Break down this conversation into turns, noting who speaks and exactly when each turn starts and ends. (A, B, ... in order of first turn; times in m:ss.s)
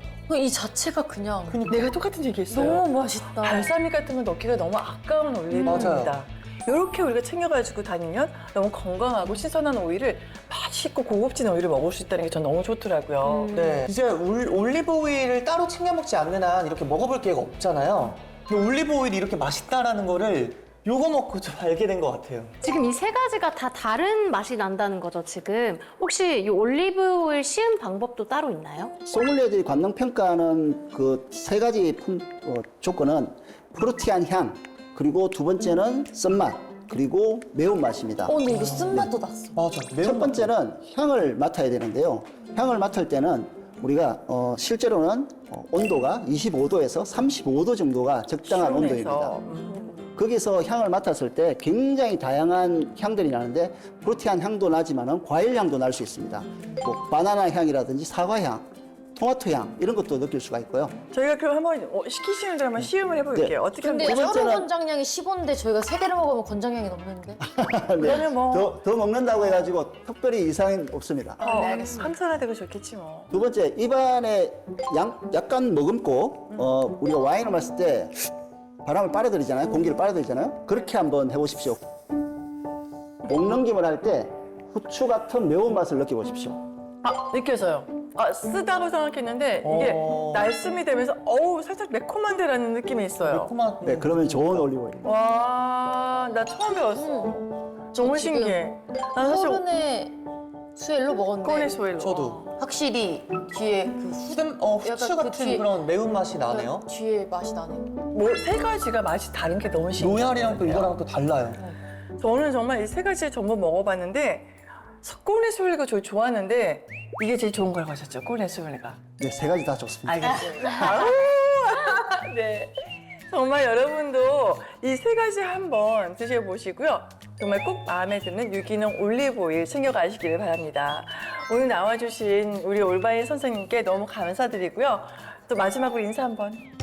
0:00.3-0:01.8 A
0:01.5-0:01.9 B
0:01.6-0:13.6 C
0:02.5-0:03.7 A
0:05.6-0:06.1 B
0:13.2-0:13.8 D
0:13.5-0:22.5 B
0:22.6-0:28.9 D
0:29.1-0:38.4 E
0:38.2-0:39.6 A
0:38.5-0:40.5 B
0:40.0-0:49.4 E
0:48.4-0:50.0 C
0:50.2-1:01.0 E
1:01.1-1:04.5 C
1:02.8-1:04.7 E
1:03.8-1:07.4 A
1:07.4-1:11.4 E
1:08.0-1:08.8 C
1:11.4-1:12.1 A
1:11.4-1:13.3 C
1:13.3-1:18.3 E
1:18.8-1:21.8 E
1:23.2-1:26.6 E
1:27.0-1:33.5 C
1:29.6-1:30.5 B
1:33.2-1:34.7 B
1:33.8-1:35.1 E
1:35.0-1:39.6 C
1:36.9-1:37.4 A
1:37.9-1:38.6 A
1:39.2-1:40.2 A
1:40.8-1:41.9 A
1:41.4-1:42.5 C
1:42.0-1:42.5 B
1:42.5-1:45.7 A
1:44.2-1:46.8 B
1:46.4-1:48.0 A
1:48.1-1:50.9 C
1:50.0-1:51.6 B
1:52.2-1:59.0 C
1:59.2-2:00.8 E
2:00.0-2:16.6 C